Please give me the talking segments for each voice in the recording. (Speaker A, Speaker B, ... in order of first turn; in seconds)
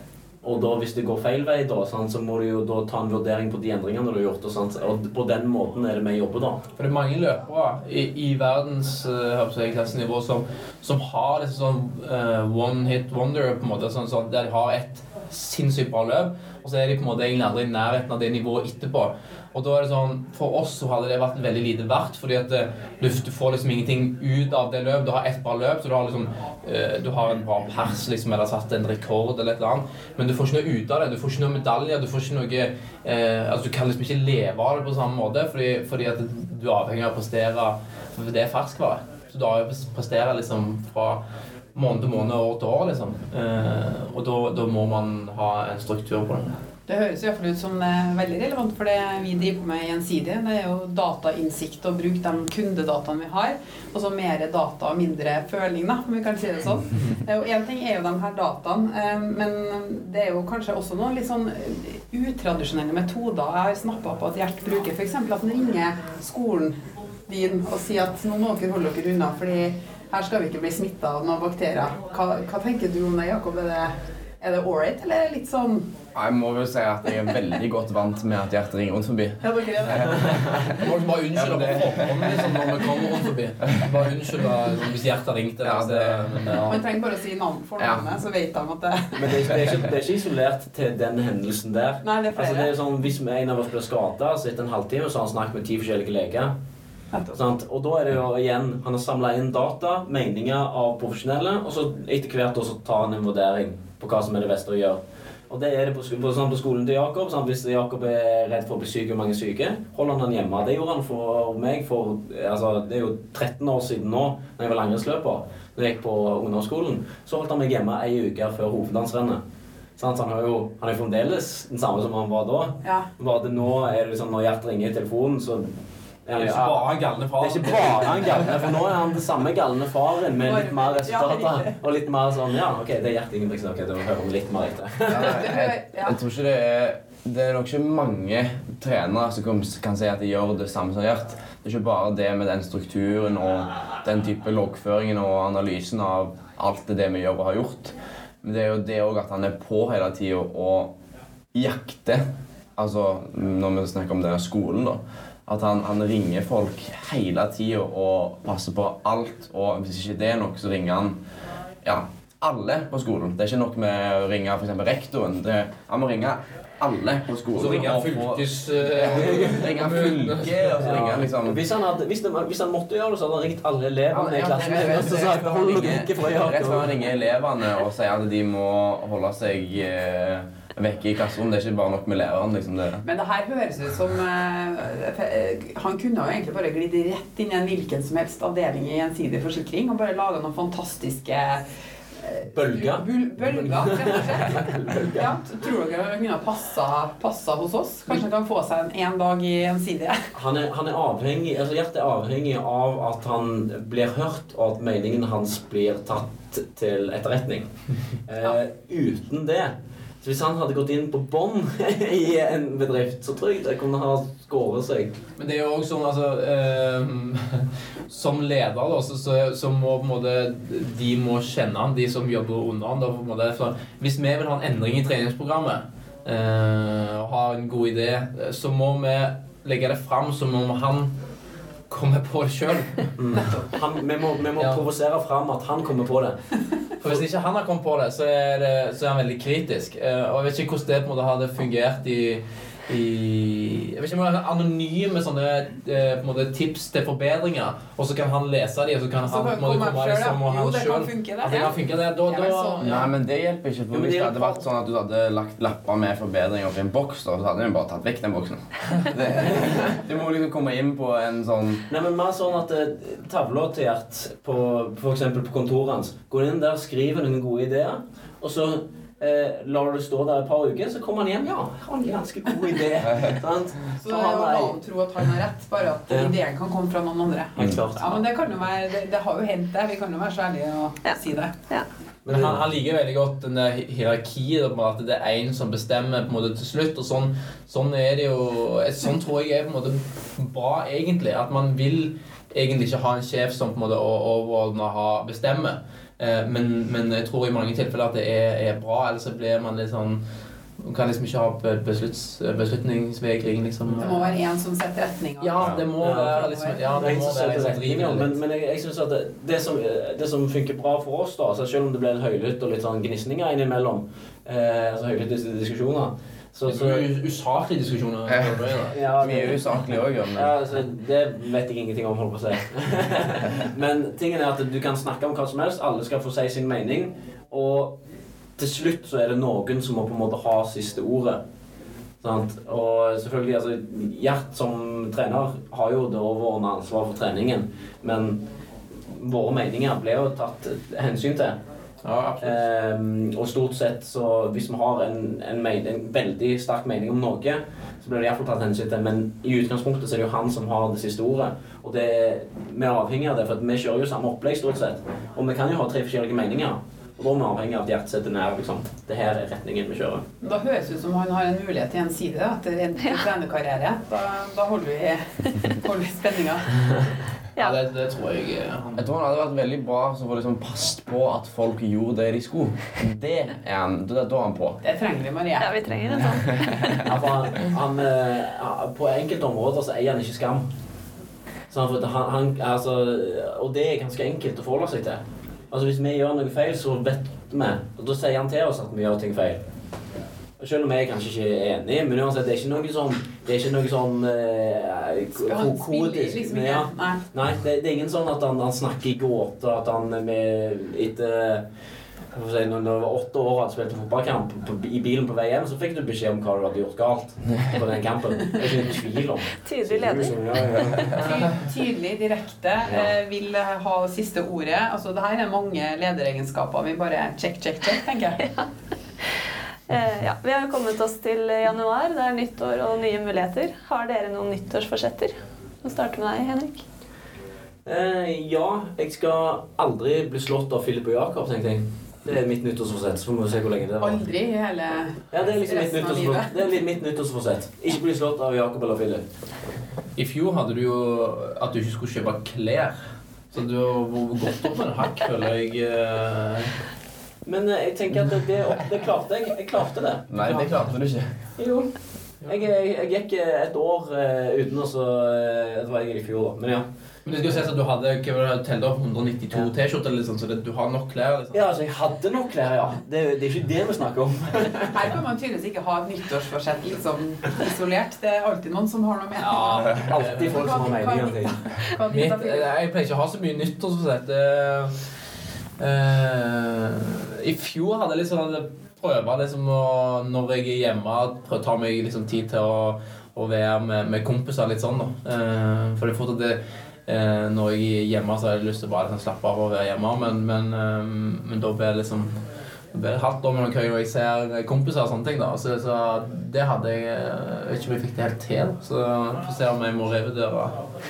Speaker A: 0.4-6.6, 89.1-96.5, 97.3-119.4, 120.0-125.7, 126.2-135.4, 170.8-176.9, 192.5-195.3, 200.3-207.7, 208.2-215.2, 233.2-236.4, 253.9-254.6, 259.5-259.8, 261.9-274.8, 277.6-278.2, 282.2-282.6, 306.0-306.4, 307.0-317.0, 318.9-319.8, 320.3-327.9, 328.6-331.4, 332.2-338.4, 339.1-341.6, 342.4-360.2, 377.0-380.7, 381.7-389.6, 390.6-401.6, 402.3-411.2, 412.9-413.1, 427.9-434.2, 435.3-439.2, 447.4-450.6, 451.6-451.9, 452.5-456.9, 461.5-465.1, 469.9-471.6
Speaker B: 6.8-41.2, 41.7-46.6, 80.7-86.8, 126.3-128.7, 167.6-171.3, 215.4-231.1, 231.9-233.4, 234.6-234.8, 237.0-253.0, 282.3-300.2, 300.8-304.3, 305.4-308.3, 316.7-319.3, 342.0-342.6, 367.6-369.1, 440.2-446.7, 450.4-450.7, 457.2-461.7, 469.4-470.8, 472.1-474.9, 475.8-492.3, 492.9-500.8
Speaker C: 46.9-66.7, 67.3-75.8, 79.4-80.5, 86.6-89.2, 92.0-92.7, 97.1-97.4, 122.8-123.1, 130.4-131.7, 135.1-136.2, 183.0-191.6, 192.2-200.2, 249.2-253.1, 274.0-281.5, 303.9-307.1, 360.4-366.8, 374.8-375.8, 395.4-397.2, 411.1-418.5, 434.0-436.8, 464.9-472.7
Speaker D: 76.1-80.8, 81.3-82.8, 85.6-86.8, 87.8-88.1, 135.1-150.9, 151.5-152.2, 152.8-161.2, 161.8-171.6, 174.1-183.0, 252.8-261.9, 273.0-273.4, 305.6-305.9, 318.3-318.6, 319.2-320.5, 368.9-374.8, 376.4-377.1, 410.7-411.1, 450.3-451.3
Speaker E: 375.6-377.1, 409.6-411.2, 419.9-426.8